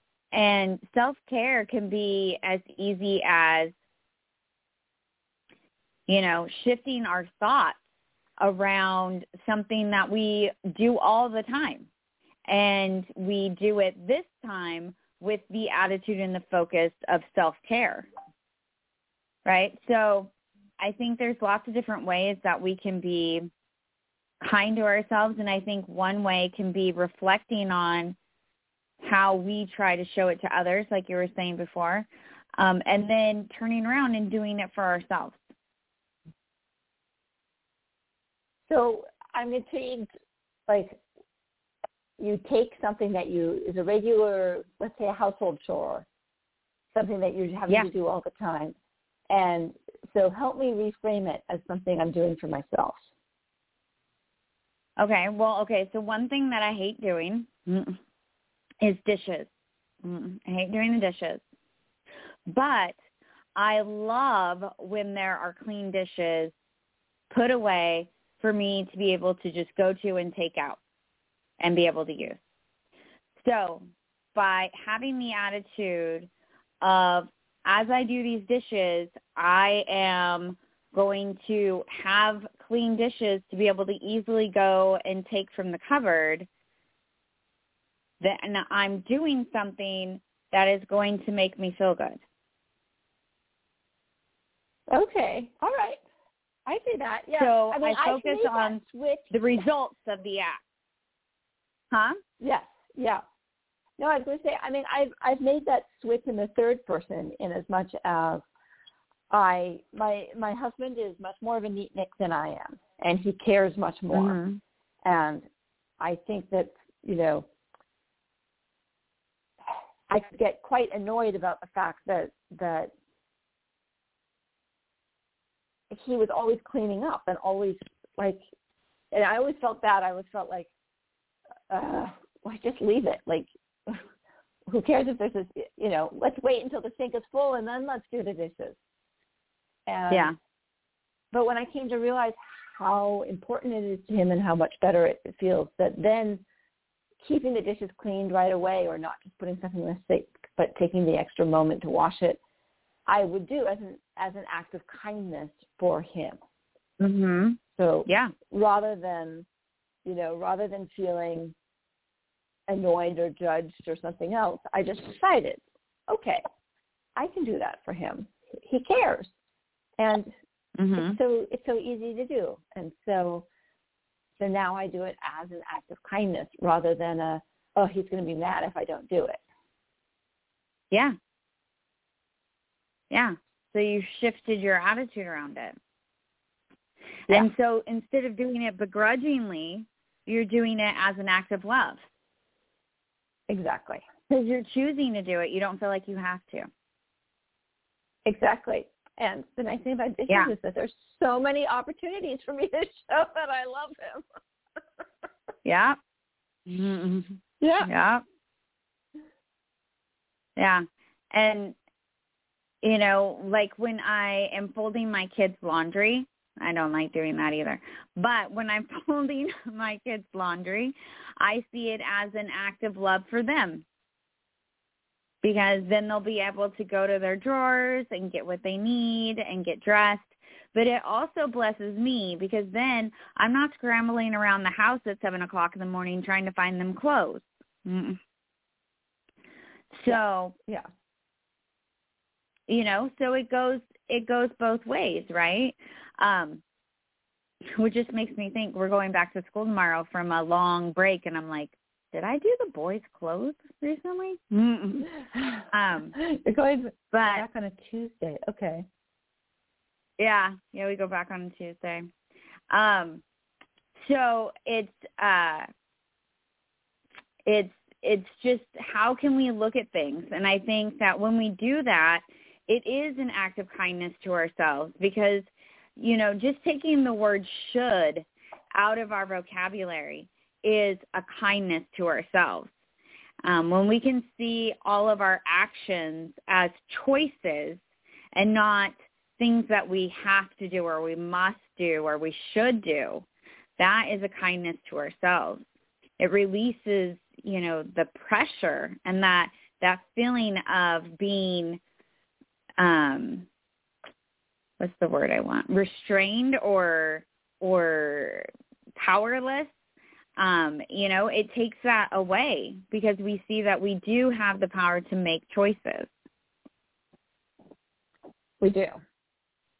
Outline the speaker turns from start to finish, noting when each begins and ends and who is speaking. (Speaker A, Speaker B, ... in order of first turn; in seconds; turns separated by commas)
Speaker A: 0.3-3.7, Speaker A: 6.1-7.8, Speaker A: 8.4-11.9, Speaker A: 12.5-18.1, Speaker A: 19.4-23.5, Speaker A: 24.4-28.1, Speaker A: 29.0-32.1, Speaker A: 32.6-35.4, Speaker B: 38.7-40.1, Speaker B: 40.7-41.0, Speaker B: 42.2-46.0, Speaker B: 46.9-48.8, Speaker B: 49.3-53.0, Speaker A: 55.0-58.0, Speaker A: 58.8-59.5, Speaker A: 60.0-61.4, Speaker A: 62.5-62.9, Speaker A: 63.5-66.5, Speaker A: 67.3-70.8, Speaker A: 71.6-72.4, Speaker A: 73.4-76.3, Speaker A: 76.8-86.5, Speaker A: 88.2-92.2, Speaker B: 94.9-96.0, Speaker B: 96.7-99.3, Speaker A: 97.4-98.8, Speaker A: 99.3-100.6, Speaker A: 101.9-102.2, Speaker B: 102.4-103.2, Speaker B: 104.0-108.4, Speaker B: 109.3-114.4, Speaker A: 114.1-114.6, Speaker B: 115.0-115.4, Speaker B: 116.0-117.5, Speaker B: 120.1-122.9, Speaker B: 125.9-128.4, Speaker B: 129.1-130.7, Speaker B: 131.7-134.0, Speaker B: 134.7-138.8, Speaker B: 139.8-140.3, Speaker A: 140.1-140.3, Speaker B: 141.3-146.4, Speaker B: 147.2-152.4, Speaker B: 153.1-156.4, Speaker A: 157.0-158.3, Speaker B: 157.8-159.4, Speaker B: 160.0-161.5, Speaker B: 162.7-166.4, Speaker B: 167.2-169.3, Speaker B: 170.0-170.3, Speaker A: 170.8-171.2, Speaker B: 170.9-173.5, Speaker B: 174.4-179.4, Speaker A: 183.1-185.8, Speaker A: 187.3-192.0, Speaker B: 193.5-194.1, Speaker A: 194.3-196.7, Speaker B: 198.2-204.2, Speaker A: 205.6-206.0, Speaker A: 206.7-208.2, Speaker B: 207.6-207.9, Speaker A: 210.6-211.8, Speaker A: 212.8-223.8, Speaker A: 225.4-238.2, Speaker A: 239.9-240.5, Speaker B: 240.1-240.9, Speaker A: 242.7-246.6, Speaker A: 247.7-255.1, Speaker B: 255.3-255.6, Speaker A: 255.7-256.1, Speaker B: 256.1-258.9, Speaker A: 257.1-257.4, Speaker A: 260.2-262.1, Speaker A: 262.7-263.2, Speaker A: 264.0-265.7, Speaker A: 267.4-282.7, Speaker A: 283.4-287.8, Speaker A: 288.4-293.2, Speaker A: 293.8-295.6, Speaker A: 296.2-301.8, Speaker A: 302.8-303.5, Speaker A: 304.8-309.7, Speaker A: 310.4-316.1, Speaker B: 318.6-319.0